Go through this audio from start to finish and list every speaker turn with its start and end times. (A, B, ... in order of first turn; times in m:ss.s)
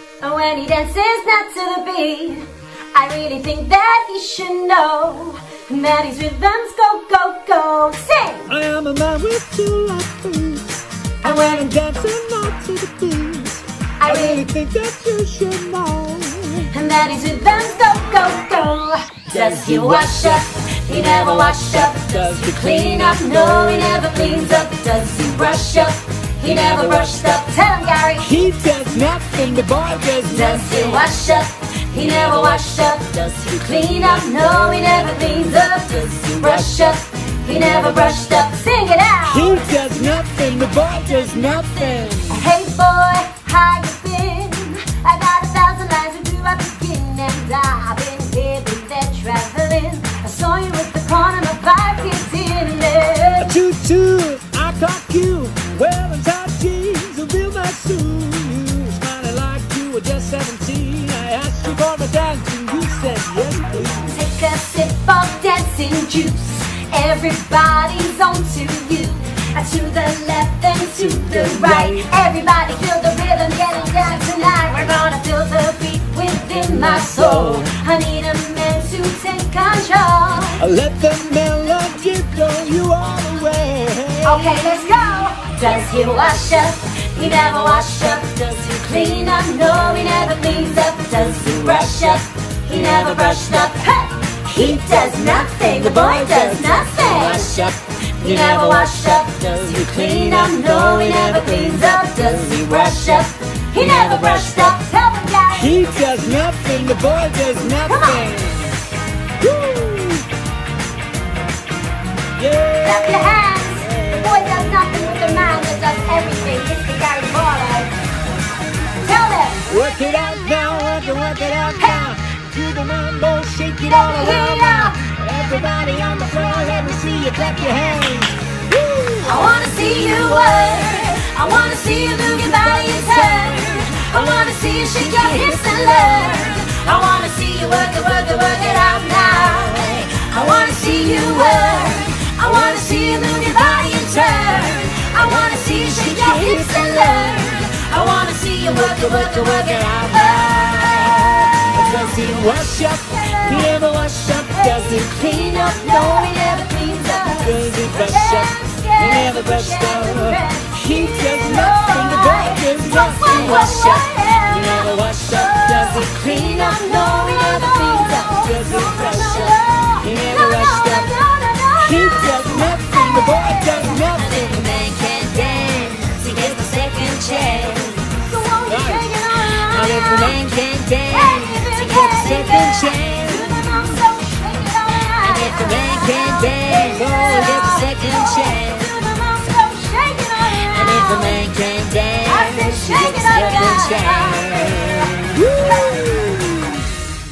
0:00.2-0:08.5 A
0:08.5-0:16.7 B
0:14.0-0:14.4 A
0:16.7-0:28.4 A
0:19.3-0:20.4 B
0:20.9-0:23.4 B
0:26.5-0:27.2 B
0:28.2-0:31.1 B
0:30.3-0:39.7 A
0:32.2-0:32.7 B
0:36.3-0:37.0 B
0:39.3-0:42.4 B
0:42.3-0:53.5 A
0:53.4-1:04.2 B
1:04.0-1:20.6 A
1:11.1-1:12.2 B
1:16.7-1:17.7 B
1:20.6-1:25.2 B
1:24.2-1:37.6 A
1:31.4-1:32.2 B
1:32.8-1:33.7 B
1:34.6-1:44.8 B
1:38.2-1:45.7 A
1:45.5-1:48.7 B
1:47.9-1:48.2 A
1:49.4-1:50.2 B
1:52.4-1:54.8 B
1:52.8-1:57.9 A
1:59.0-1:59.7 A
1:59.7-2:11.0 B
2:03.9-2:04.9 A
2:09.2-2:31.1 A
2:12.3-2:16.5 B
2:23.6-2:27.6 B
2:28.6-2:36.2 B
2:32.0-2:33.8 A
2:34.4-3:00.4 A
2:37.0-2:51.2 B
2:51.8-2:54.7 B
2:56.2-2:58.1 B
2:58.6-3:04.0 B
3:01.1-3:11.5 A
3:05.2-3:08.9 B
3:10.6-3:16.6 B
3:12.2-3:14.8 A
3:15.6-3:15.9 A